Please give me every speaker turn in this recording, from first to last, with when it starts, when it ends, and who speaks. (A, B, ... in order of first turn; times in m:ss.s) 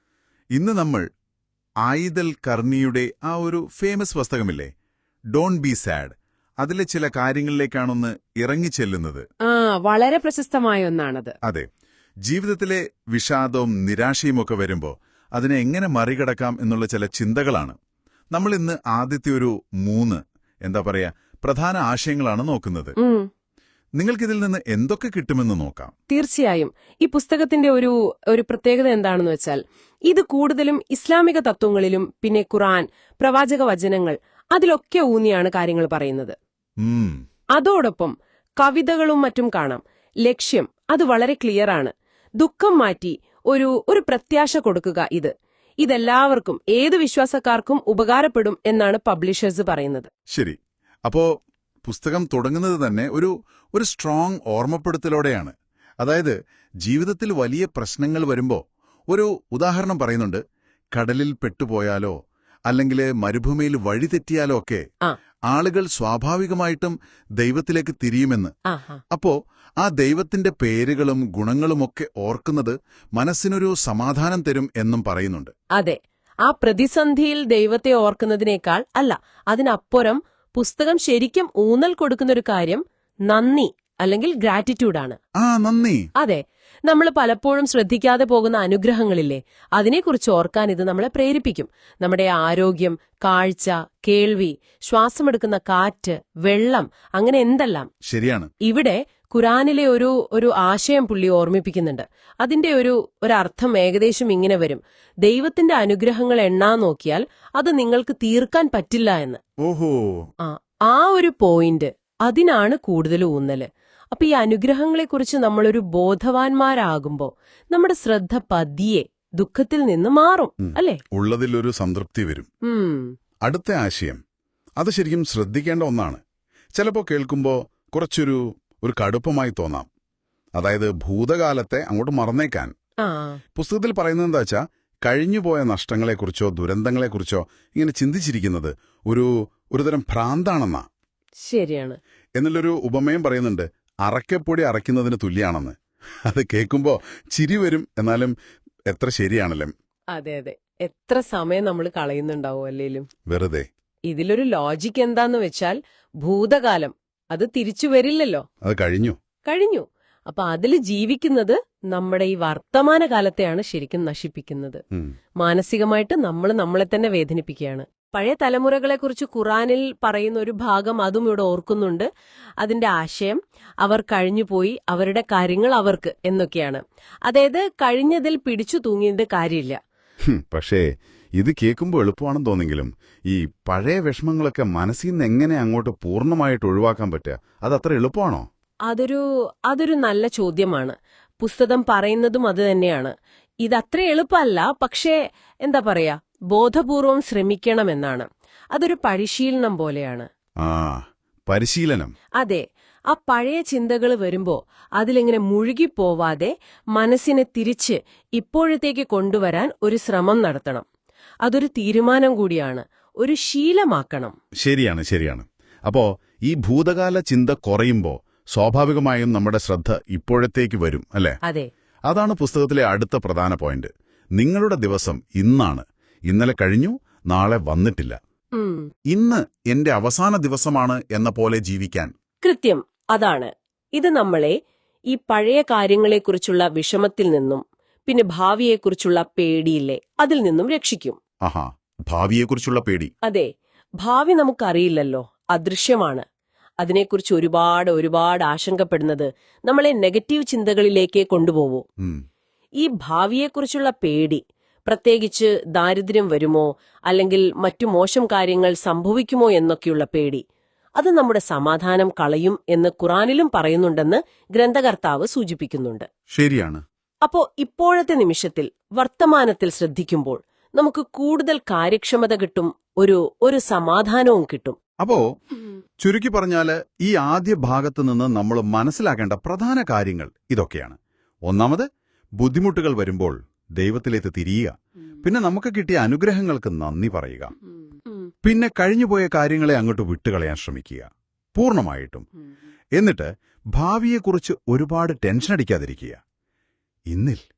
0:00.5-0:01.0 A
0:01.8-0:04.7 A
0:05.3-0:09.2 A
0:09.4-0:11.4 B
0:11.4-0:11.7 A
0:12.2-0:17.8 A
0:18.3-0:23.0 A
0:23.0-0:23.3 B
0:24.0-0:25.9 A
0:26.1-0:36.4 B
0:36.8-0:37.2 A
0:37.5-0:50.1 B
0:50.3-0:51.3 A
0:51.8-1:02.2 A
1:02.7-1:04.8 A
1:05.5-1:08.5 A
1:08.7-1:09.0 B
1:09.1-1:15.5 A
1:15.7-1:25.2 B
1:25.4-1:26.1 A
1:26.2-1:37.9 B
1:38.0-1:38.5 A
1:38.6-1:49.4 B
1:49.6-1:50.3 A
1:50.4-2:01.0 B
2:00.6-2:02.5 A
2:02.6-2:03.1 B
2:03.4-2:04.2 A
2:04.8-2:06.2 A
2:06.7-2:09.9 A
2:10.5-2:12.7 A
2:13.0-2:13.4 B
2:13.6-2:20.8 A
2:21.4-2:22.0 B
2:22.4-2:25.8 A
2:26.3-2:28.3 A
2:28.9-2:29.7 A
2:30.1-2:33.1 B
2:33.3-2:33.7 A
2:34.1-2:38.4 B
2:38.6-2:39.2 A
2:39.4-2:44.8 B
2:45.4-2:52.1 B
2:52.6-2:59.8 B
3:00.2-3:08.5 A
3:08.9-3:20.3 B
3:20.6-3:22.1 A
3:22.4-3:30.8 B
3:31.4-3:34.3 B
3:34.6-3:41.4 A
3:41.4-3:41.7 B
3:42.1-3:48.2 A
3:48.5-3:48.9 B
3:49.1-3:52.1 A
3:52.4-3:54.6 B
3:55.1-4:01.2 B
4:01.4-4:03.1 A
4:03.2-4:03.5 B
4:04.0-4:06.2 B
4:06.8-4:11.8 B
4:12.8-4:20.4 B
4:21.0-4:26.1 B
4:26.3-4:26.8 A
4:27.2-4:34.8 B
4:35.0-4:35.2 A
4:36.0-4:41.9 A
4:42.4-4:47.5 A
4:48.4-4:52.2 A
4:53.0-4:56.2 A
4:57.1-4:57.4 A